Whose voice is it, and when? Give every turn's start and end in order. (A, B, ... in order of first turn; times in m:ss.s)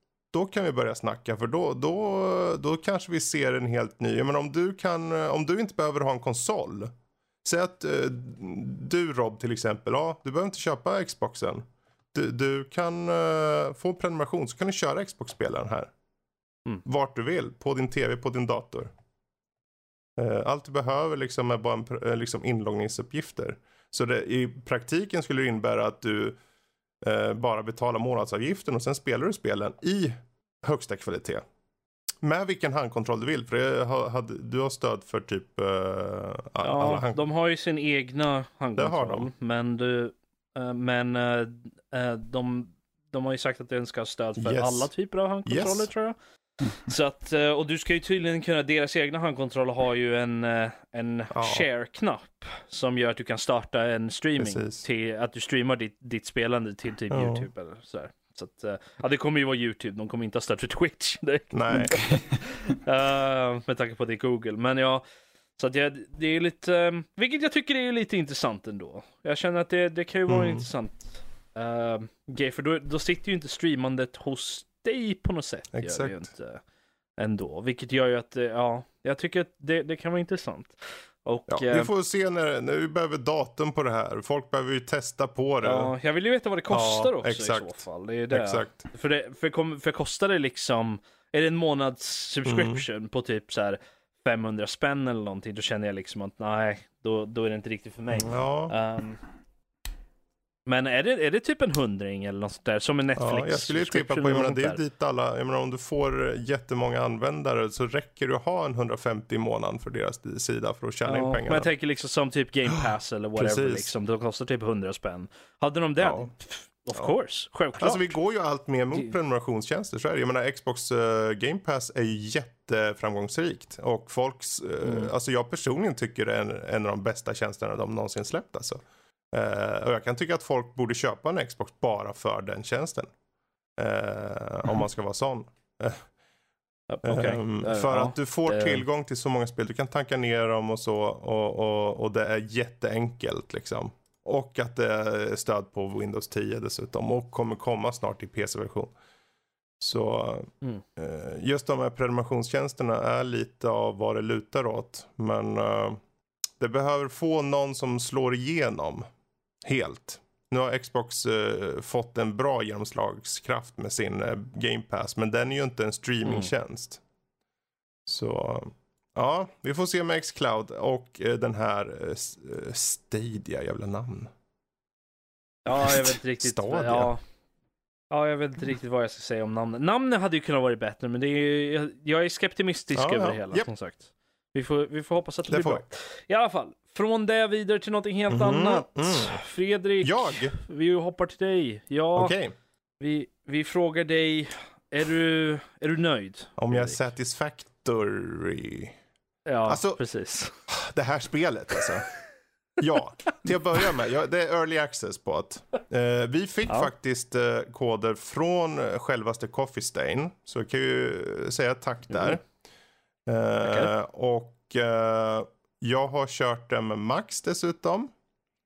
0:00.3-0:06.9 A
0:07.4-0:15.9 A
0:16.8-0:18.9 A
0:20.2-0:26.4 A
0:27.0-0:31.4 A
0:32.2-0:37.2 A
0:36.6-0:46.2 B
0:38.8-0:39.3 A
0:44.4-0:44.9 A
0:45.5-0:45.9 A
0:46.7-1:05.0 B
0:51.3-0:51.7 A
0:54.4-0:54.8 A
0:57.1-0:57.5 A
1:01.5-1:02.0 A
1:05.6-1:16.6 B
1:10.3-1:10.6 A
1:15.7-1:16.3 A
1:17.2-1:21.9 B
1:21.5-1:25.9 A
1:25.6-1:39.2 B
1:26.7-1:28.8 A
1:32.5-1:32.8 A
1:38.2-1:38.7 A
1:40.7-1:44.8 B
1:43.2-1:51.7 A
1:51.1-1:58.1 B
1:52.8-1:53.9 A
1:56.0-1:56.3 A
1:57.8-2:13.1 A
2:04.8-2:05.1 B
2:13.8-2:16.0 A
2:16.9-2:18.8 B
2:17.0-2:28.9 A
2:29.8-2:36.0 A
2:36.6-2:39.1 A
2:39.6-2:47.0 A
2:48.1-2:54.3 A
2:55.7-2:57.2 B
2:56.4-2:57.1 A
2:58.1-3:12.4 B
3:03.0-3:03.7 A
3:05.5-3:05.8 A
3:08.3-3:09.4 A
3:10.0-3:10.5 A
3:12.2-3:12.5 A
3:13.0-3:17.0 B
3:16.6-3:19.0 A
3:19.5-3:20.5 B
3:19.7-3:20.0 A
3:20.7-3:22.1 A
3:22.8-3:32.4 A
3:33.3-3:38.1 A
3:33.6-3:33.9 B